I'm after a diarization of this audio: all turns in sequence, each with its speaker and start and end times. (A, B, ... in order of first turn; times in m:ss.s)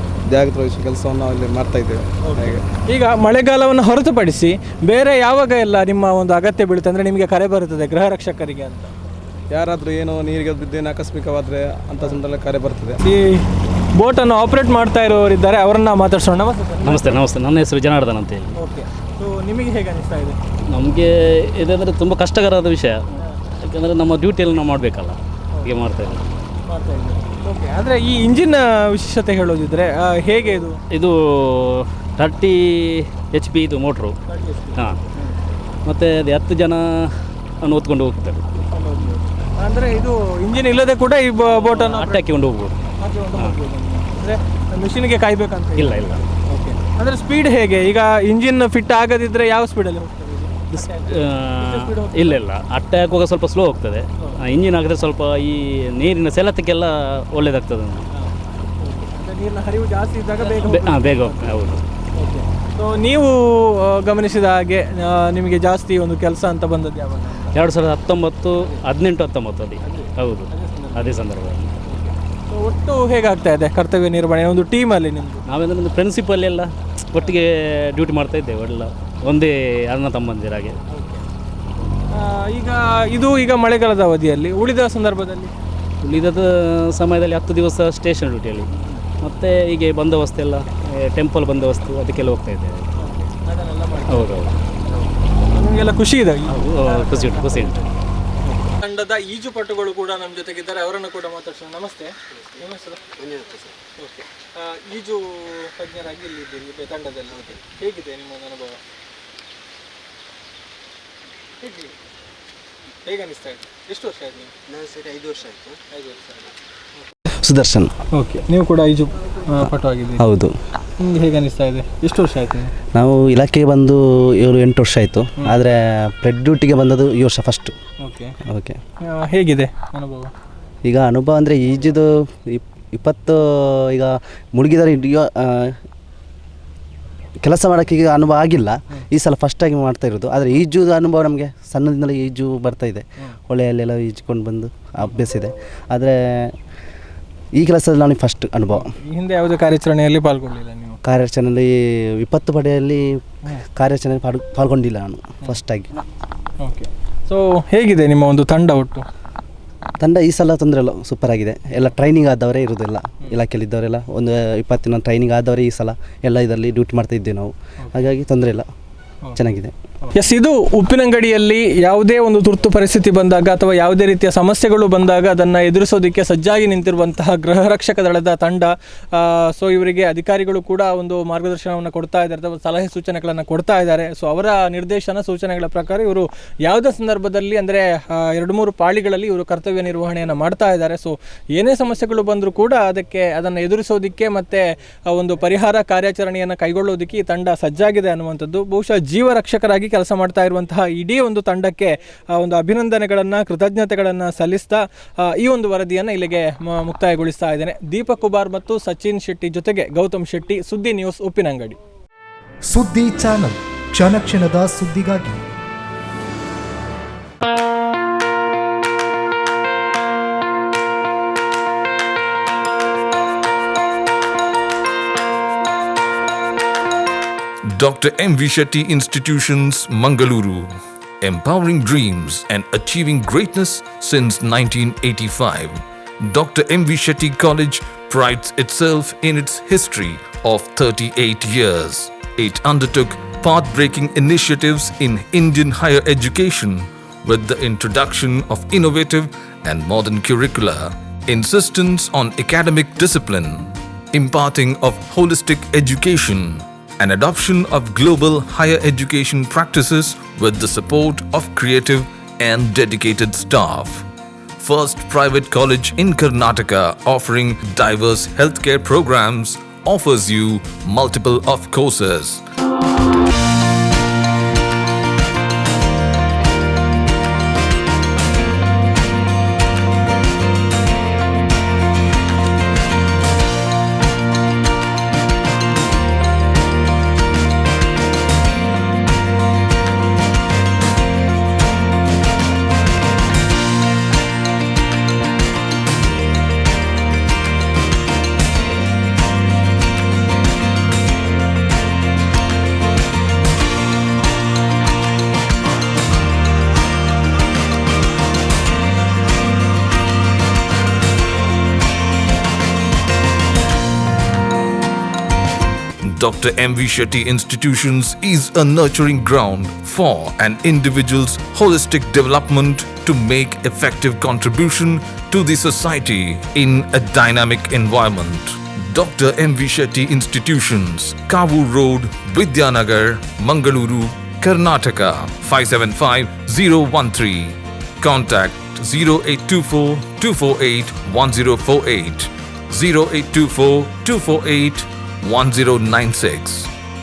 0:00.3-0:02.6 A
0:02.2-0:08.9 B
0:09.5-0:13.0 A
0:13.0-0:13.4 B
0:14.0-0:17.2 B
0:16.8-0:18.6 C
0:18.6-0:20.4 B
0:20.7-0:23.0 C
0:23.7-0:26.2 C
0:26.7-0:30.8 B
0:30.9-0:34.2 C
0:34.3-0:35.3 B
0:35.8-0:38.5 C
0:38.7-0:42.2 B
0:41.5-0:42.8 C
0:43.0-0:52.4 B
0:45.8-0:46.2 C
0:50.7-0:58.1 C
0:58.1-1:01.6 B
1:00.4-1:01.8 C
1:02.2-1:07.6 B
1:07.5-1:11.7 C
1:09.8-1:11.2 B
1:11.8-1:15.4 B
1:15.5-1:20.8 C
1:20.9-1:21.2 B
1:22.1-1:25.5 B
1:26.0-1:28.7 C
1:29.2-1:32.8 C
1:33.0-1:37.9 B
1:34.1-1:34.5 C
1:36.5-1:37.8 C
1:38.7-1:43.0 B
1:44.0-1:48.8 B
1:51.6-1:51.9 B
1:53.0-1:54.5 B
1:55.9-1:56.5 B
1:57.4-1:57.9 D
1:58.1-2:00.2 B
2:00.2-2:00.5 D
2:01.0-2:02.7 B
2:02.9-2:07.7 D
2:08.0-2:08.4 B
2:08.5-2:08.8 D
2:09.0-2:10.3 B
2:10.8-2:15.8 D
2:17.4-2:26.5 D
2:27.6-2:28.9 D
2:28.7-2:31.0 B
2:31.0-2:33.2 D
2:33.8-2:35.9 D
2:36.6-2:39.0 B
2:40.0-2:48.7 D
2:49.4-2:49.7 D
2:50.1-3:31.8 B
3:32.7-3:35.4 E
3:47.7-4:24.1 F
4:24.6-4:32.4 F
5:16.0-5:46.7 F